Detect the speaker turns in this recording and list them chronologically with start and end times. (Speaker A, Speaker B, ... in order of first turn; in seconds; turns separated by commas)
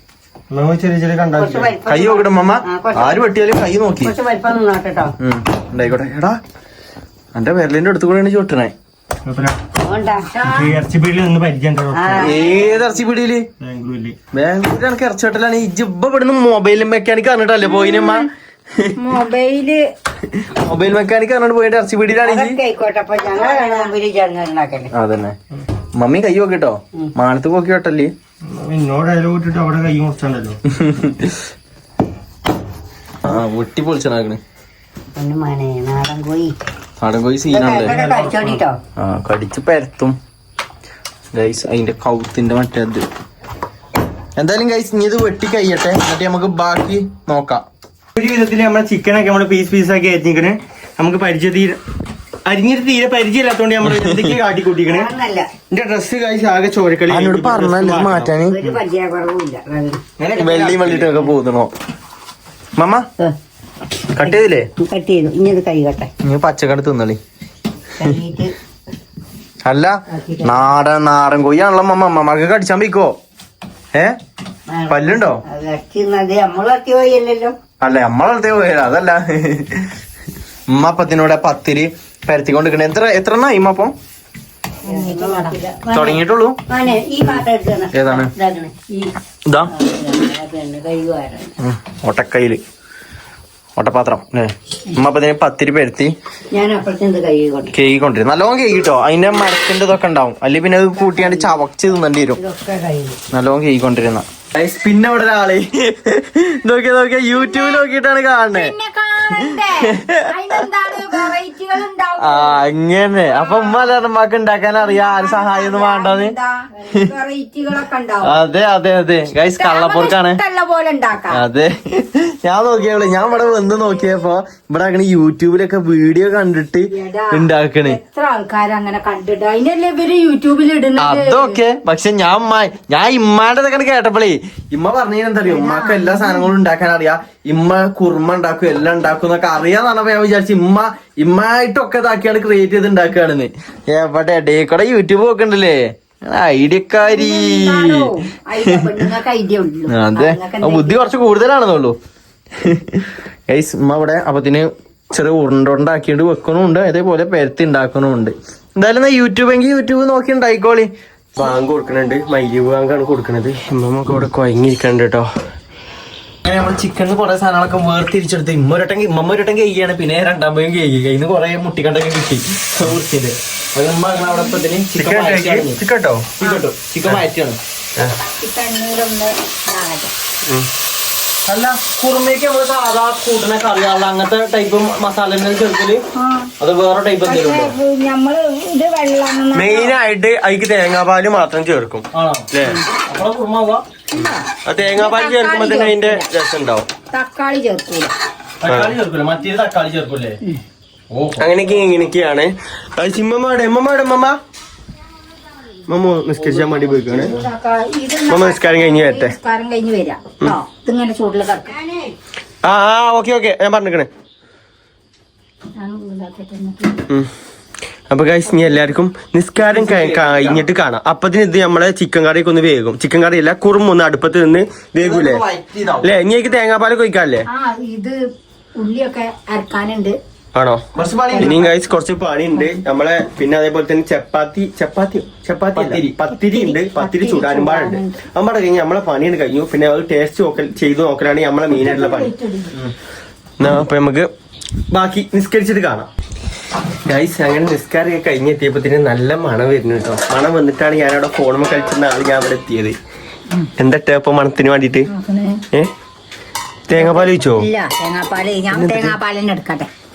Speaker A: 0.5-1.7, Speaker B: 1.4-3.3, Speaker C: 1.8-4.1, Speaker B: 4.0-5.1, Speaker C: 5.2-6.4, Speaker C: 7.3-8.7, Speaker A: 9.2-9.6, Speaker B: 9.8-10.5, Speaker D: 10.3-10.7, Speaker A: 10.5-12.4, Speaker B: 11.9-12.6, Speaker C: 12.2-13.5, Speaker A: 13.6-14.2, Speaker C: 14.3-18.9, Speaker D: 17.6-18.2, Speaker D: 19.0-19.9, Speaker C: 20.3-22.6, Speaker B: 22.2-24.9, Speaker D: 23.2-23.9, Speaker C: 24.9-25.4, Speaker C: 25.9-28.1, Speaker A: 28.5-30.6, Speaker C: 30.7-31.3, Speaker C: 33.2-34.4, Speaker B: 35.1-36.5, Speaker C: 37.0-37.9, Speaker B: 37.5-38.8, Speaker A: 37.8-38.6, Speaker C: 39.0-40.2, Speaker C: 41.3-43.0, Speaker C: 44.4-47.6, Speaker A: 48.1-51.8, Speaker A: 52.5-55.1, Speaker C: 53.9-54.3, Speaker B: 54.9-55.5, Speaker A: 55.7-58.8, Speaker C: 57.1-58.5, Speaker B: 58.5-60.0, Speaker A: 60.2-61.3, Speaker C: 60.3-61.7, Speaker C: 62.8-63.1, Speaker C: 64.1-64.7, Speaker B: 64.2-66.1, Speaker C: 66.2-67.2, Speaker B: 68.0-68.5, Speaker C: 69.7-73.1, Speaker B: 70.1-70.7, Speaker B: 74.7-77.6, Speaker C: 74.9-75.4, Speaker C: 77.8-79.9, Speaker C: 80.7-83.9, Speaker D: 84.8-85.5, Speaker B: 84.9-89.1, Speaker C: 85.9-86.6, Speaker C: 87.9-88.3, Speaker B: 89.7-91.5, Speaker C: 91.6-92.6, Speaker C: 93.8-96.1, Speaker B: 96.5-97.7, Speaker C: 97.7-102.4, Speaker B: 101.0-101.5, Speaker B: 102.4-103.2, Speaker C: 103.3-108.7, Speaker D: 107.3-107.9, Speaker D: 108.5-112.6, Speaker C: 109.4-110.3, Speaker C: 112.2-116.3, Speaker D: 113.3-113.9, Speaker D: 114.8-118.4, Speaker C: 118.2-120.4, Speaker D: 119.6-121.4, Speaker C: 121.3-128.0, Speaker D: 126.9-131.6, Speaker C: 131.0-149.0, Speaker D: 135.5-136.5, Speaker D: 147.0-151.1, Speaker C: 149.9-151.9, Speaker C: 152.6-160.9, Speaker A: 161.3-165.3, Speaker C: 166.4-175.8, Speaker A: 174.9-176.3, Speaker C: 176.4-177.6, Speaker D: 178.4-180.1, Speaker C: 181.4-186.0, Speaker D: 186.1-186.5, Speaker C: 186.6-187.7, Speaker D: 187.2-189.9, Speaker A: 189.5-192.8, Speaker C: 192.1-193.8, Speaker D: 194.1-196.2, Speaker A: 194.2-196.9, Speaker D: 197.1-198.1, Speaker C: 198.6-200.4, Speaker A: 198.7-198.9, Speaker C: 201.1-201.5, Speaker A: 201.4-204.4, Speaker A: 205.9-207.3, Speaker C: 206.4-207.2, Speaker D: 207.1-211.7, Speaker A: 208.3-209.3, Speaker B: 211.7-212.2, Speaker A: 212.6-214.1, Speaker D: 215.8-217.0, Speaker A: 218.1-225.4, Speaker C: 219.6-220.6, Speaker C: 225.0-226.1, Speaker A: 226.0-227.4, Speaker D: 227.5-228.2, Speaker D: 228.8-230.2, Speaker A: 230.5-230.9, Speaker C: 230.9-231.7, Speaker D: 231.3-231.6, Speaker A: 231.4-242.3, Speaker C: 235.7-236.1, Speaker D: 236.3-238.2, Speaker D: 241.8-242.7, Speaker A: 243.6-244.3, Speaker A: 244.9-246.1, Speaker A: 247.1-253.0, Speaker A: 253.8-255.1, Speaker D: 255.1-255.6, Speaker A: 256.9-257.7, Speaker D: 256.9-259.9, Speaker A: 258.7-259.1